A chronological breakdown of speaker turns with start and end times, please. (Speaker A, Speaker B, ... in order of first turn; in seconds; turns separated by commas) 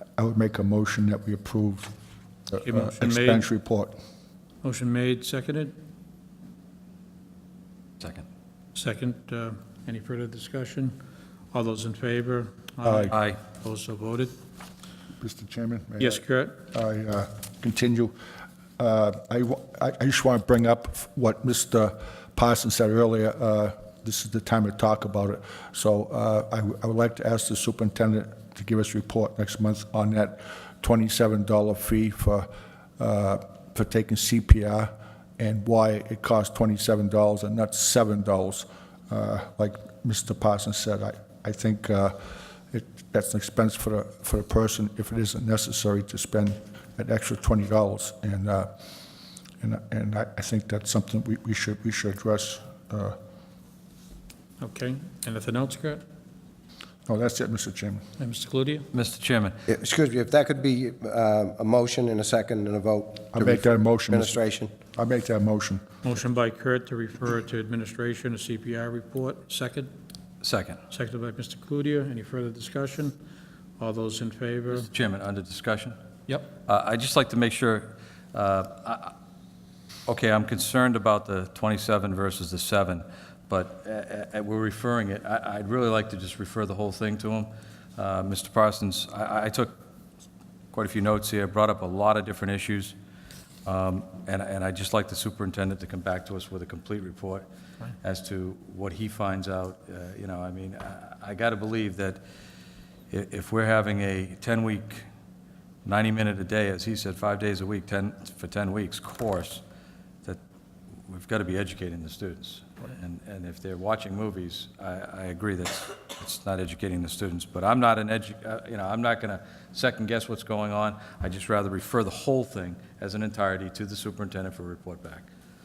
Speaker A: 0.2-1.9, Speaker A: 2.5-4.0, Speaker B: 2.6-3.5, Speaker B: 4.6-5.7, Speaker B: 8.8-10.9, Speaker B: 11.5-14.3, Speaker A: 12.8-13.1, Speaker C: 13.1-13.4, Speaker A: 15.2-18.1, Speaker B: 16.0-16.6, Speaker A: 18.8-48.7, Speaker A: 49.6-53.2, Speaker B: 54.6-56.0, Speaker A: 57.1-58.0, Speaker B: 58.2-58.9, Speaker C: 58.9-59.6, Speaker D: 59.7-64.7, Speaker A: 63.3-64.4, Speaker A: 64.9-65.8, Speaker B: 66.0-69.9, Speaker C: 70.4-70.8, Speaker B: 70.9-73.2, Speaker B: 73.8-74.9, Speaker C: 74.7-76.0, Speaker C: 76.7-79.1, Speaker C: 80.1-89.8, Speaker C: 90.7-93.0, Speaker C: 93.7-97.5, Speaker C: 98.0-102.2, Speaker C: 103.1-105.0, Speaker C: 105.8-109.6, Speaker C: 111.1-125.3